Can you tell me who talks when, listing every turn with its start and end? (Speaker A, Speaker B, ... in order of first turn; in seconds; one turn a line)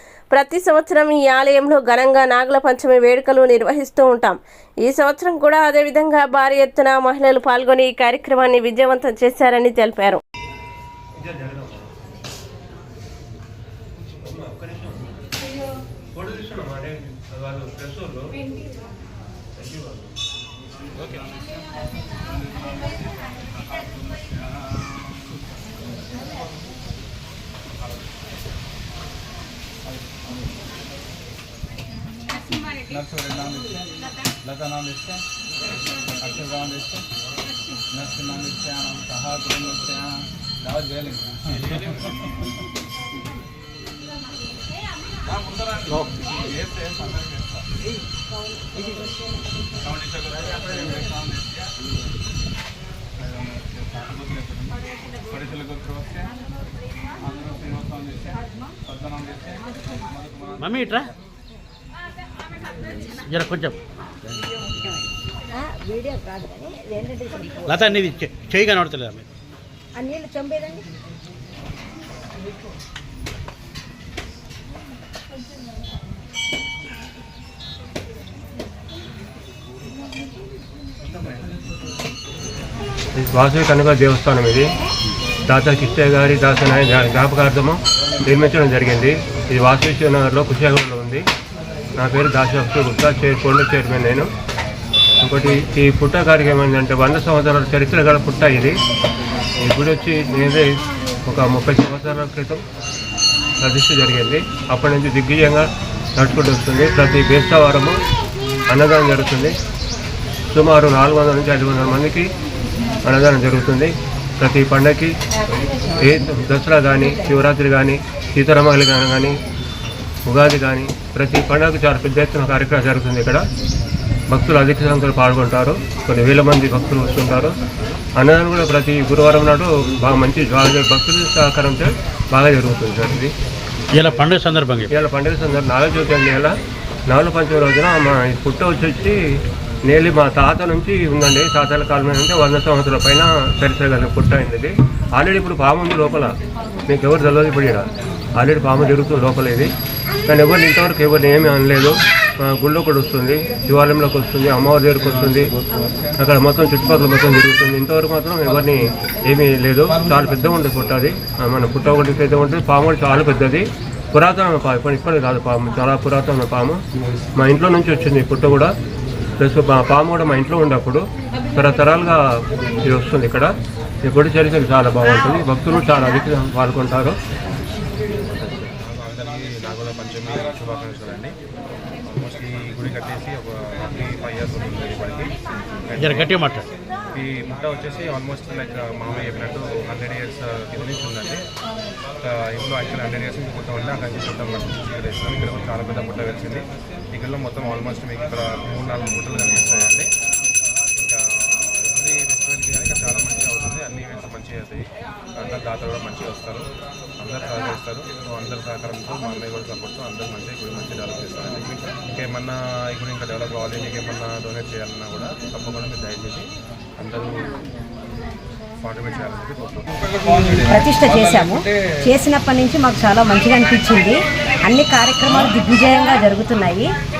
Speaker A: 0.3-10.2
Speaker B: 11.2-11.9
Speaker B: 14.2-15.2
Speaker B: 16.1-18.4
Speaker B: 19.6-20.1
Speaker C: 32.9-33.9
Speaker C: 34.4-35.2
Speaker C: 36.2-37.0
Speaker C: 37.9-41.7
Speaker C: 46.4-47.5
Speaker C: 49.9-51.4
Speaker C: 53.2-54.7
Speaker C: 55.3-56.2
Speaker C: 57.3-58.3
Speaker C: 58.9-59.5
Speaker D: 60.6-61.1
Speaker D: 63.0-63.8
Speaker E: 66.2-66.5
Speaker D: 67.6-69.2
Speaker B: 83.1-84.7
Speaker B: 85.5-91.3
Speaker B: 92.0-94.3
Speaker B: 95.2-98.8
Speaker B: 99.6-102.6
Speaker B: 103.6-108.0
Speaker B: 108.7-109.6
Speaker B: 110.5-112.3
Speaker B: 113.0-115.2
Speaker B: 115.8-119.4
Speaker B: 120.2-123.5
Speaker B: 124.3-127.6
Speaker B: 128.2-133.3
Speaker D: 133.9-134.9
Speaker B: 134.9-136.5
Speaker B: 137.1-139.2
Speaker B: 139.8-146.3
Speaker B: 146.9-149.7
Speaker B: 150.2-155.5
Speaker C: 155.0-156.1
Speaker B: 156.2-166.8
Speaker B: 167.3-168.7
Speaker B: 169.4-172.2
Speaker B: 172.8-177.2
Speaker F: 178.8-181.3
Speaker F: 182.1-185.3
Speaker F: 185.9-186.5
Speaker D: 185.9-186.6
Speaker F: 187.1-191.4
Speaker F: 192.2-200.1
Speaker F: 200.9-216.5
Speaker F: 217.0-217.6
Speaker F: 218.8-220.1
Speaker C: 220.1-221.7
Speaker E: 220.2-226.9